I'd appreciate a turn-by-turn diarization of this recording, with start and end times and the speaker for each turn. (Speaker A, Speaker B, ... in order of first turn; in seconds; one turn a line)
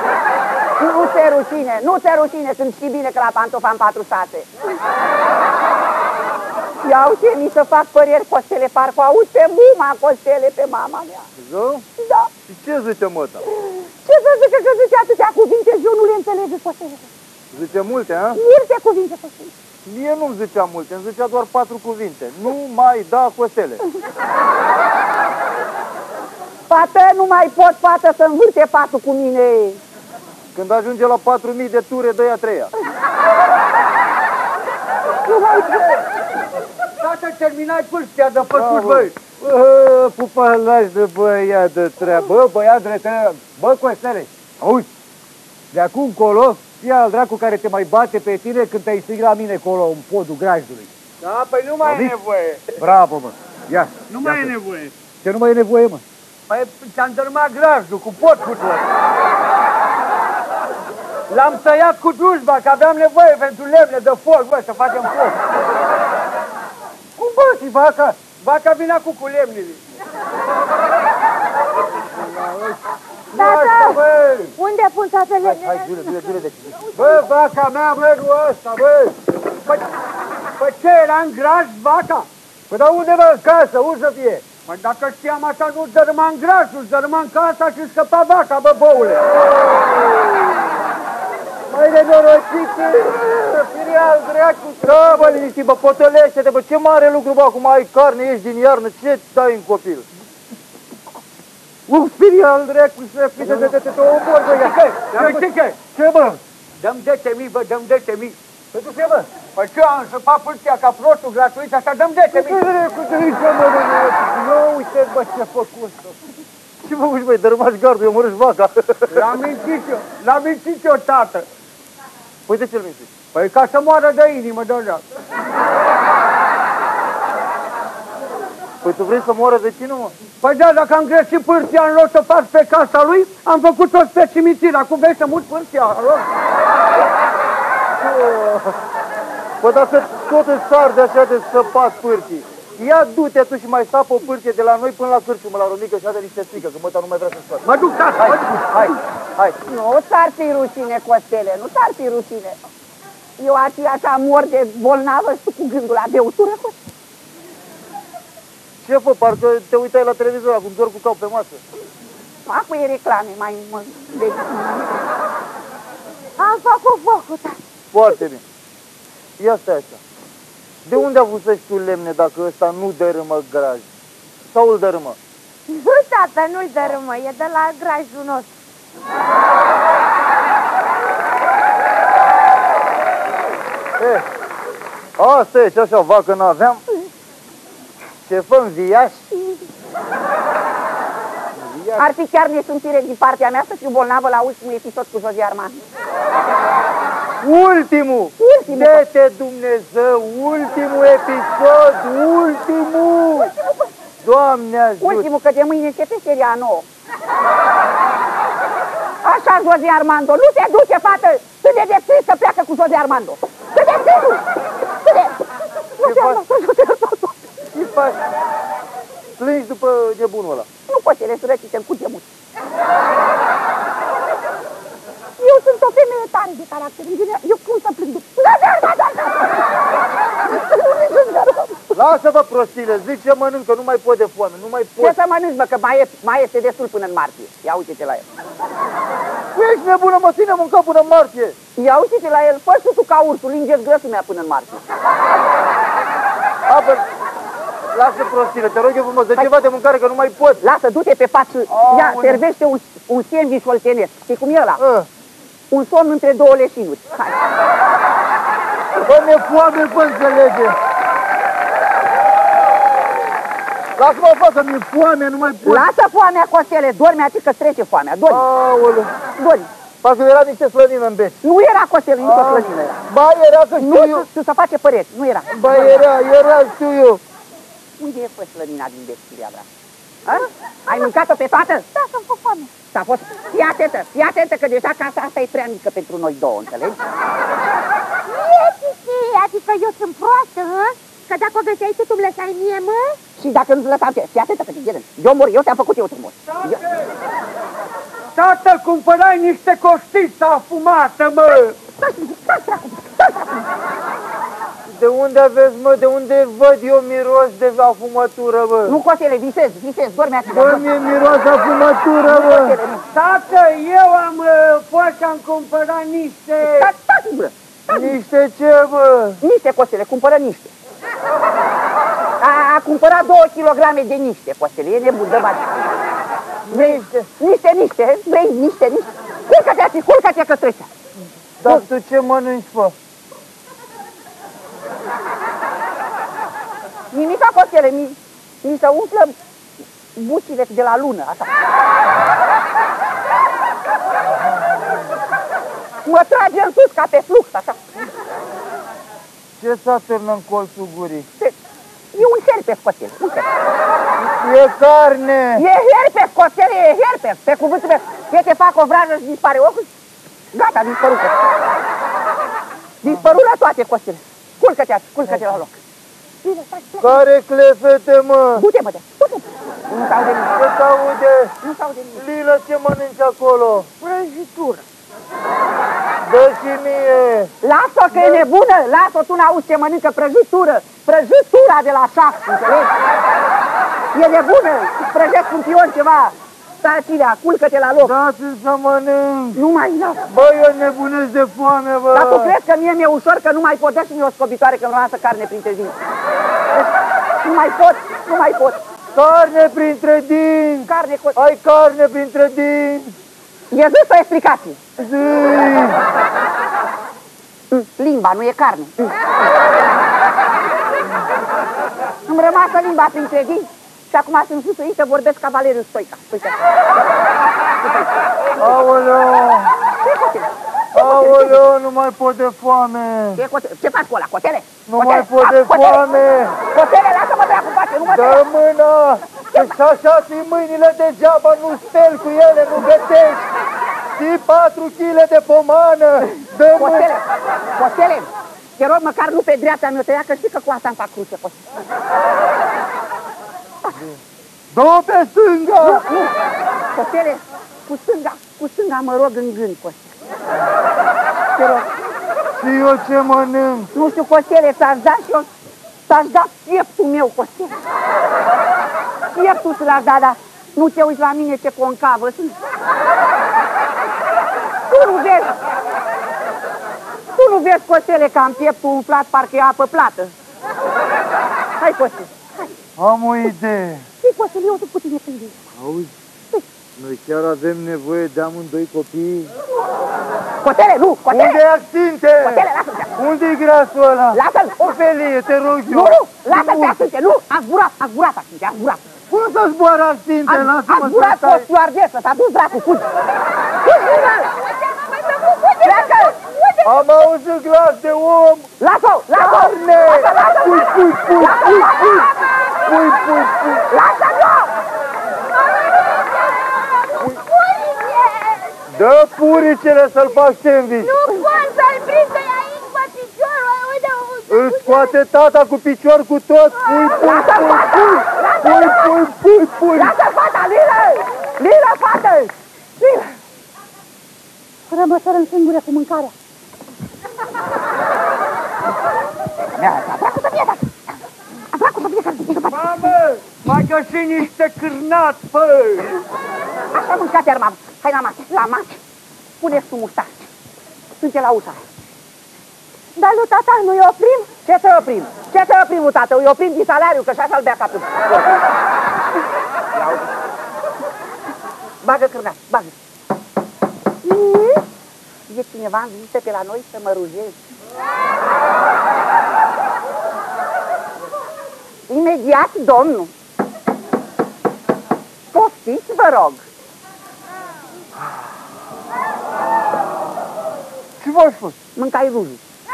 Speaker A: 0.8-4.5
Speaker A: 6.8-11.3
Speaker B: 11.4-11.8
Speaker A: 12.0-12.3
Speaker B: 12.5-13.4
Speaker A: 13.5-17.1
Speaker B: 17.5-18.4
Speaker A: 18.4-19.5
Speaker B: 19.9-23.8
Speaker A: 26.7-29.8
Speaker B: 30.6-32.7
Speaker A: 35.3-36.0
Speaker C: 37.0-39.1
Speaker D: 38.6-44.9
Speaker B: 38.6-39.1
Speaker D: 45.7-50.9
Speaker C: 51.2-52.8
Speaker D: 51.9-52.1
Speaker D: 52.8-54.5
Speaker C: 54.1-54.9
Speaker D: 55.2-56.0
Speaker C: 56.5-58.9
Speaker C: 61.3-65.4
Speaker D: 67.2-68.2
Speaker C: 68.4-69.8
Speaker D: 72.1-72.8
Speaker E: 73.3-74.0
Speaker C: 73.4-74.0
Speaker D: 73.4-74.5
Speaker E: 74.6-76.4
Speaker B: 75.4-77.0
Speaker D: 77.0-79.2
Speaker C: 80.6-82.3
Speaker D: 82.7-84.4
Speaker C: 84.7-89.2
Speaker D: 89.5-90.0
Speaker D: 91.7-95.4
Speaker B: 94.8-100.1
Speaker D: 101.9-106.4
Speaker B: 103.4-103.8
Speaker C: 105.1-105.8
Speaker C: 106.8-108.4
Speaker D: 108.7-109.3
Speaker C: 109.5-112.7
Speaker D: 112.3-116.2
Speaker B: 116.8-119.3
Speaker C: 119.1-121.5
Speaker B: 122.5-123.1
Speaker C: 123.3-125.0
Speaker B: 128.8-130.1
Speaker C: 130.4-136.3
Speaker D: 138.0-138.8
Speaker B: 139.6-147.7
Speaker C: 147.7-148.7
Speaker B: 148.2-149.6
Speaker A: 149.7-152.6
Speaker A: 153.4-156.8
Speaker B: 158.8-161.6
Speaker A: 162.5-164.9
Speaker E: 166.4-167.6
Speaker B: 167.9-168.4
Speaker B: 169.4-170.0
Speaker B: 170.9-173.9
Speaker B: 174.5-175.2
Speaker E: 175.7-178.5
Speaker B: 184.0-184.3
Speaker B: 185.2-186.8
Speaker B: 188.2-189.7
Speaker D: 191.6-192.0
Speaker A: 192.0-195.8
Speaker B: 197.4-203.5
Speaker A: 198.4-199.1
Speaker A: 203.3-203.9
Speaker B: 204.2-205.3
Speaker A: 205.0-206.9
Speaker A: 209.2-214.4
Speaker A: 215.0-217.4
Speaker B: 216.0-216.4
Speaker B: 217.7-218.2
Speaker B: 219.4-220.7
Speaker A: 220.9-222.3
Speaker A: 225.4-229.7
Speaker A: 230.4-232.0
Speaker B: 231.9-235.2
Speaker A: 235.0-238.3
Speaker B: 239.5-241.6
Speaker A: 241.8-244.8
Speaker B: 246.7-247.1
Speaker B: 247.9-250.6
Speaker A: 250.6-254.8
Speaker B: 251.7-252.4
Speaker B: 254.8-255.1
Speaker A: 255.7-257.4
Speaker B: 259.0-260.8
Speaker B: 264.0-265.9
Speaker A: 265.6-268.5
Speaker B: 268.3-269.1
Speaker A: 269.4-269.7
Speaker B: 270.0-271.4
Speaker A: 271.4-273.0
Speaker B: 272.2-274.3
Speaker A: 273.8-276.0
Speaker B: 275.5-277.2
Speaker A: 278.0-279.7
Speaker A: 280.2-281.9
Speaker E: 280.3-281.1
Speaker E: 281.9-282.7
Speaker A: 282.9-287.0
Speaker E: 288.3-293.2
Speaker A: 293.4-296.8
Speaker C: 296.5-297.1
Speaker C: 298.4-301.8
Speaker A: 301.9-303.7
Speaker B: 304.9-309.0
Speaker A: 308.9-310.9
Speaker B: 310.5-312.8
Speaker A: 312.3-313.0
Speaker C: 313.1-316.9
Speaker A: 316.6-318.2
Speaker B: 317.9-319.4
Speaker A: 319.4-320.7
Speaker A: 322.4-325.9
Speaker B: 326.7-327.3
Speaker A: 326.7-330.9
Speaker B: 331.6-332.9
Speaker A: 337.1-339.4
Speaker A: 340.2-341.5
Speaker B: 344.3-345.2
Speaker A: 346.1-348.1
Speaker B: 349.6-351.3
Speaker A: 352.1-353.5
Speaker B: 354.2-355.6
Speaker A: 355.6-359.9
Speaker A: 360.5-361.4
Speaker A: 363.0-365.8
Speaker A: 366.4-367.2
Speaker B: 367.0-368.6
Speaker A: 368.6-370.5
Speaker B: 370.5-371.5
Speaker A: 371.6-372.2
Speaker B: 372.2-373.9
Speaker A: 374.0-374.8
Speaker B: 376.2-377.5
Speaker A: 377.6-382.9
Speaker B: 378.1-378.4
Speaker A: 384.1-388.1
Speaker B: 388.0-389.6
Speaker A: 389.6-390.2
Speaker B: 390.3-392.6
Speaker A: 392.1-396.0
Speaker A: 396.8-398.8
Speaker B: 399.1-403.2
Speaker A: 400.9-401.4
Speaker A: 403.7-404.8
Speaker B: 405.0-406.0
Speaker A: 407.7-409.2
Speaker A: 412.3-416.6
Speaker A: 417.8-418.8
Speaker B: 418.6-419.7
Speaker A: 420.0-421.6
Speaker B: 420.9-423.4
Speaker A: 423.4-426.1
Speaker B: 424.9-426.6
Speaker A: 426.7-428.4
Speaker B: 428.1-433.5
Speaker A: 429.5-429.8
Speaker B: 434.2-437.1
Speaker A: 436.8-438.3
Speaker A: 438.8-441.6
Speaker B: 444.7-446.1
Speaker A: 445.8-446.4
Speaker A: 446.9-450.1
Speaker A: 451.6-451.9
Speaker B: 452.6-453.9
Speaker A: 453.9-455.5
Speaker A: 456.1-457.8
Speaker A: 459.3-462.6
Speaker A: 464.9-465.5
Speaker A: 467.4-470.3
Speaker A: 471.8-472.8
Speaker B: 473.0-474.1
Speaker A: 474.2-475.6
Speaker B: 475.8-476.1
Speaker B: 477.0-479.5
Speaker A: 480.6-481.6
Speaker B: 481.3-487.0
Speaker A: 482.4-483.1
Speaker A: 484.3-484.9
Speaker A: 485.9-489.0
Speaker B: 489.3-491.7
Speaker A: 490.5-493.1
Speaker A: 493.8-494.5
Speaker E: 495.1-496.5
Speaker A: 495.8-496.8
Speaker B: 496.8-498.7
Speaker A: 498.8-502.3
Speaker B: 499.4-502.3
Speaker B: 502.9-503.9
Speaker A: 503.9-504.7
Speaker E: 505.7-508.7
Speaker B: 508.9-511.2
Speaker E: 511.0-515.1
Speaker B: 514.5-520.1
Speaker E: 516.8-517.3
Speaker A: 517.2-519.2
Speaker A: 519.9-523.4
Speaker A: 524.9-526.3
Speaker A: 529.8-530.9
Speaker A: 531.7-533.1
Speaker C: 532.7-536.2
Speaker A: 536.9-539.0
Speaker A: 539.6-540.5
Speaker A: 541.2-541.8
Speaker E: 543.2-544.5
Speaker A: 544.5-548.7
Speaker A: 550.0-550.3
Speaker A: 552.0-552.9
Speaker A: 554.2-554.8
Speaker A: 555.5-557.6
Speaker A: 562.1-563.3
Speaker A: 565.5-566.7
Speaker B: 571.2-571.8
Speaker A: 572.0-572.6